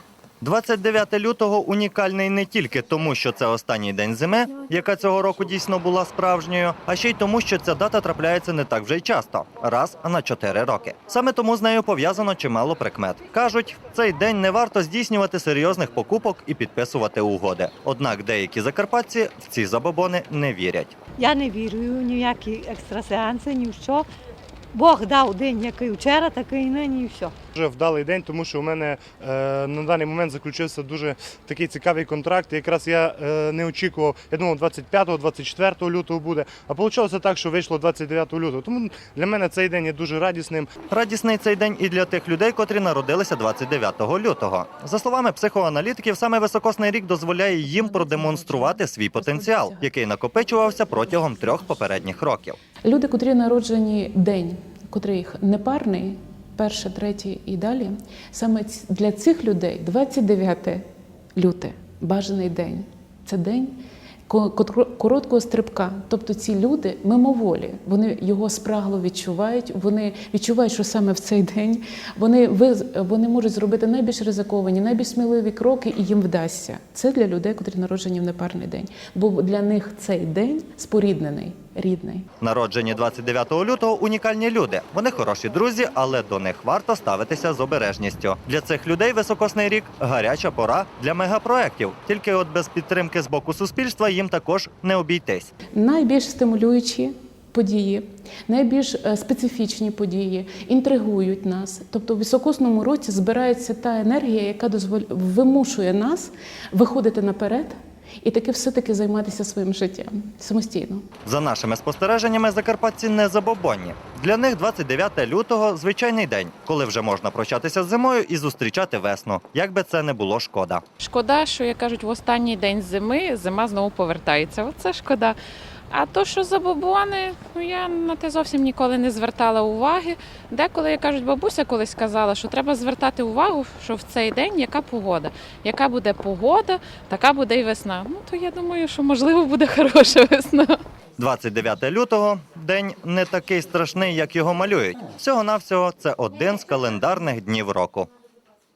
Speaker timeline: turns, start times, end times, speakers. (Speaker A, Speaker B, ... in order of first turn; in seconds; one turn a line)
Speaker A: 0.4-20.9
Speaker B: 21.2-24.1
Speaker B: 24.7-27.3
Speaker C: 27.5-40.7
Speaker A: 40.9-52.6
Speaker D: 52.8-63.8
Speaker D: 64.3-82.2
Speaker A: 82.4-95.5
Speaker D: 95.7-111.0
Speaker A: 111.2-120.8
Speaker E: 121.0-125.3
Speaker E: 125.9-140.7
Speaker A: 141.2-148.1